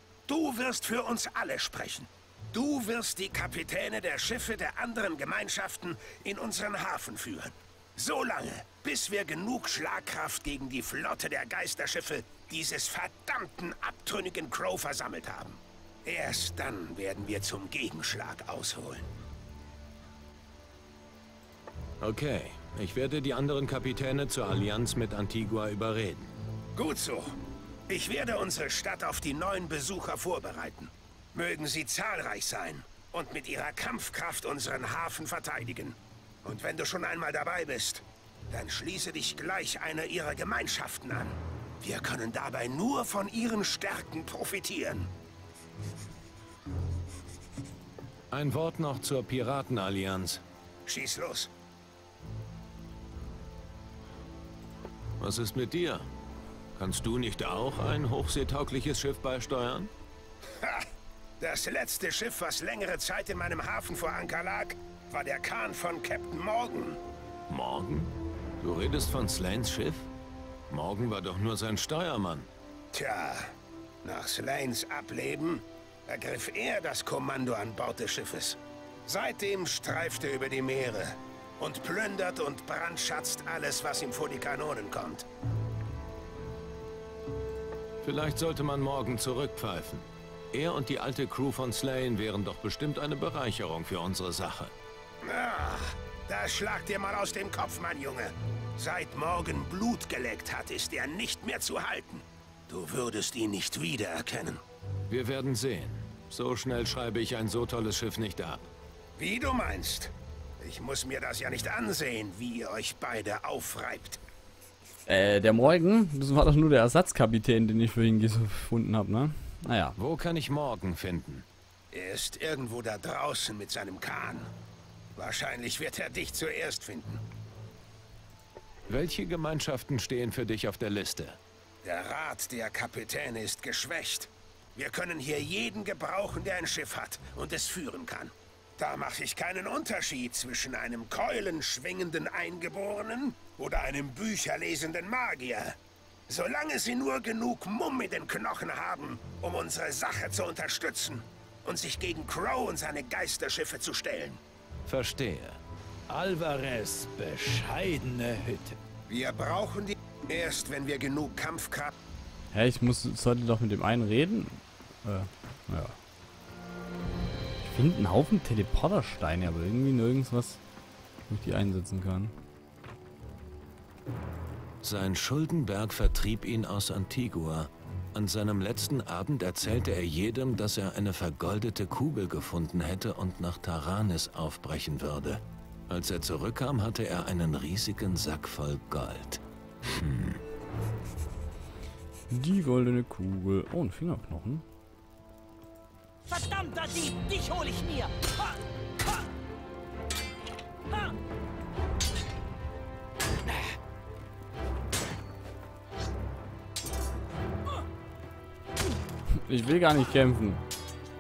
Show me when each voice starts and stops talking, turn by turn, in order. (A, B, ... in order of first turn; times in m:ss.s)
0:00.3-0:19.1 A
0:22.0-0:26.3 B
0:26.8-0:27.4 A
0:27.9-0:45.1 A
0:48.3-0:50.4 B
0:50.8-0:51.5 A
0:55.2-0:56.1 B
0:56.8-0:59.9 B
1:00.5-1:00.9 A
1:01.4-1:07.0 A
1:07.5-1:10.1 B
1:10.7-1:12.5 B
1:12.9-1:13.5 A
1:14.0-1:25.3 A
1:28.0-1:34.7 B
1:35.2-1:44.6 A
1:45.1-1:48.7 B
1:49.2-1:54.2 A
1:55.0-2:00.0 C
2:00.0-2:01.4 B
2:01.9-2:04.5 A
2:05.2-2:07.2 A
2:08.9-2:11.4 B
2:11.8-2:34.4 A
2:34.8-2:35.6 B
2:36.1-2:38.8 D
2:39.1-2:41.9 A
2:42.5-2:46.0 C
2:47.6-2:50.6 C
2:51.3-2:52.3 C
2:54.8-3:10.4 B
3:12.3-3:14.6 C
3:16.3-3:18.6 E
3:29.4-3:30.6 C